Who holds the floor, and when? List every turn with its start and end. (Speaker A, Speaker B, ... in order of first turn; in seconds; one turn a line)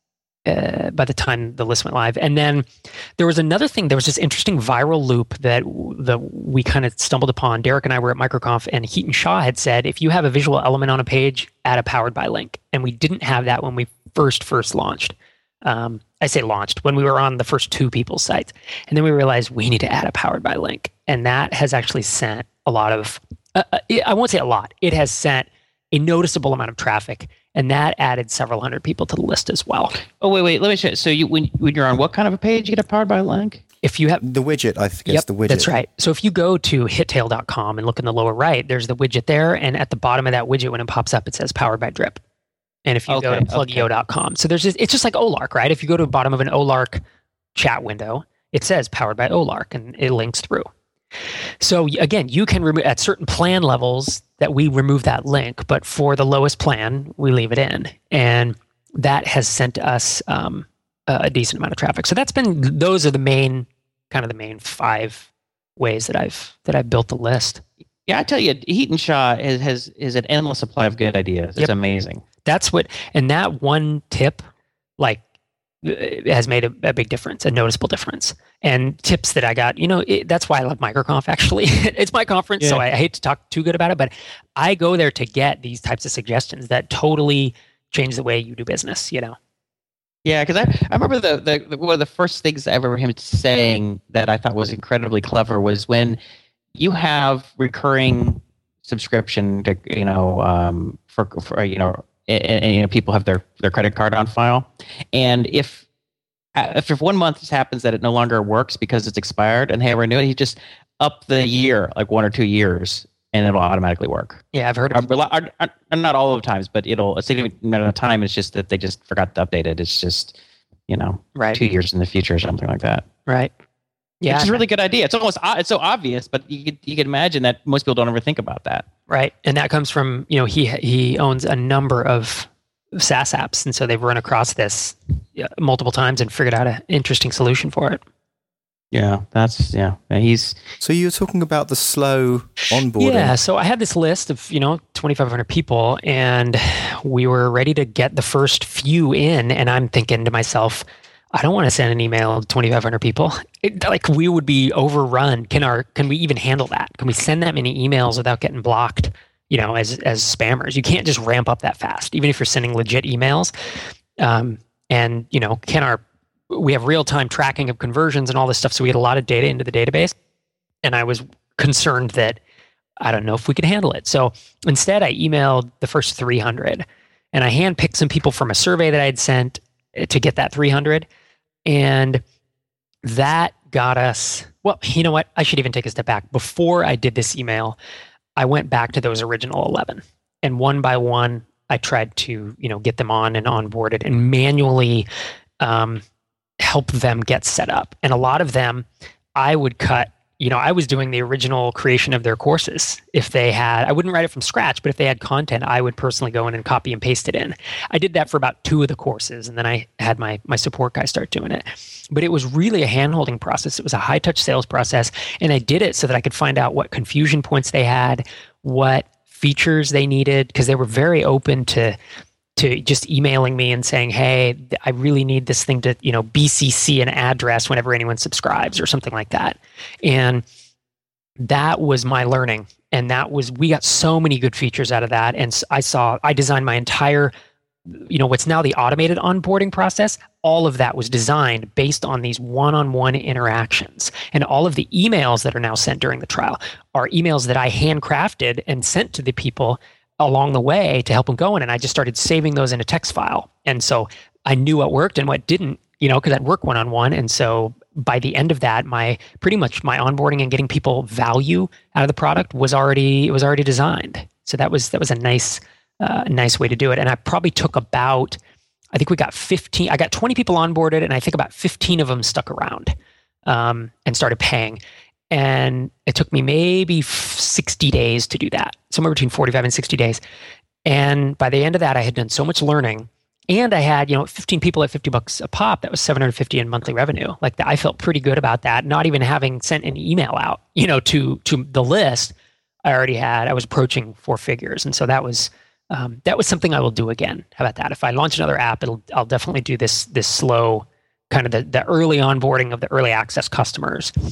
Speaker A: 0.5-30.0
Speaker B: 30.1-33.6
Speaker A: 33.8-34.2
Speaker C: 34.2-35.7
Speaker A: 35.1-42.2
Speaker A: 42.9-47.0
Speaker B: 43.1-43.9
Speaker A: 47.5-50.7
Speaker A: 51.6-67.6
Speaker B: 68.1-72.2
Speaker A: 72.4-74.4
Speaker A: 75.8-89.3
Speaker B: 90.2-96.2
Speaker B: 96.7-105.8
Speaker B: 106.5-120.3
Speaker A: 114.5-115.0
Speaker B: 120.9-123.0
Speaker A: 121.3-121.6
Speaker A: 123.2-123.5
Speaker A: 124.2-124.6
Speaker B: 124.3-128.9
Speaker A: 129.1-138.0
Speaker B: 138.9-140.6
Speaker C: 140.8-143.3
Speaker A: 143.0-163.5
Speaker A: 164.2-170.1
Speaker A: 170.8-172.4
Speaker A: 173.0-181.1
Speaker A: 181.7-182.2
Speaker A: 183.0-187.8
Speaker A: 188.3-195.1
Speaker A: 195.6-196.0
Speaker A: 196.6-222.0
Speaker A: 222.6-230.4
Speaker A: 231.4-237.3
Speaker A: 237.9-268.4
Speaker A: 268.9-272.9
Speaker A: 273.4-274.8
Speaker A: 275.3-280.2
Speaker A: 280.9-292.3
Speaker A: 292.9-304.1